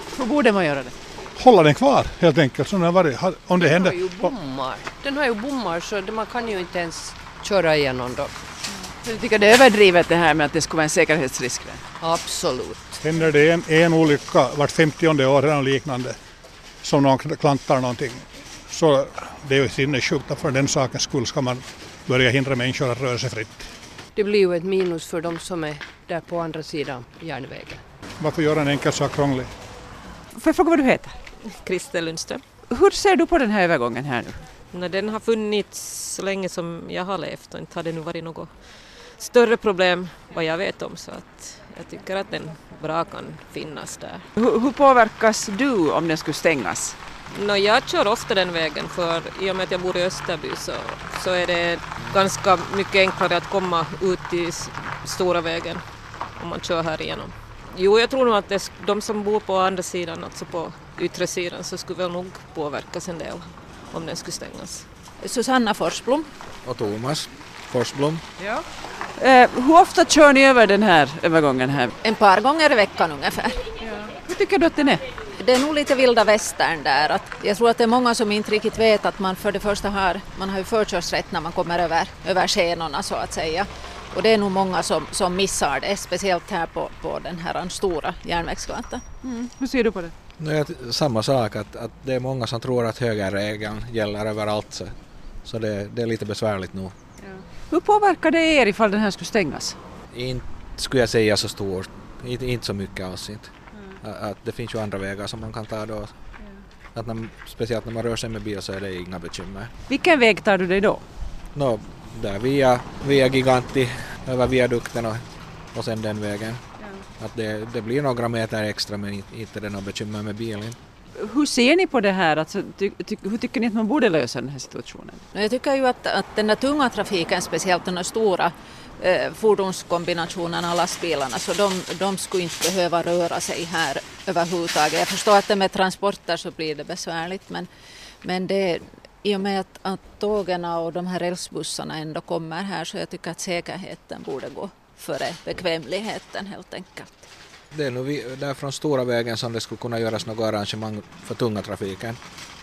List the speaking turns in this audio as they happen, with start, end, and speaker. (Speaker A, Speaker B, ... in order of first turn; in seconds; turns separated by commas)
Speaker A: 0.1-0.9, Speaker B: 1.4-4.3, Speaker C: 3.6-8.4, Speaker A: 9.0-11.8, Speaker C: 12.0-13.0, Speaker B: 13.0-16.2, Speaker B: 16.8-23.7, Speaker C: 24.1-27.8, Speaker B: 28.2-29.5, Speaker A: 30.4-31.2, Speaker D: 31.5-32.4, Speaker A: 32.7-34.4, Speaker D: 34.7-44.2, Speaker A: 44.4-47.0, Speaker D: 47.3-55.8, Speaker D: 56.4-64.8, Speaker E: 65.2-66.3, Speaker F: 66.7-68.2, Speaker A: 69.2-71.9, Speaker E: 72.0-73.6, Speaker A: 73.8-75.0, Speaker E: 75.4-89.0, Speaker A: 89.2-90.1, Speaker F: 90.4-94.9, Speaker F: 95.4-97.0, Speaker A: 97.2-99.8, Speaker F: 100.1-103.5, Speaker F: 104.0-106.1, Speaker F: 106.9-109.7, Speaker A: 109.9-111.0, Speaker F: 111.5-116.6, Speaker F: 117.2-120.8, Speaker A: 121.2-125.2, Speaker E: 125.3-137.7, Speaker E: 138.2-147.3, Speaker F: 147.7-152.2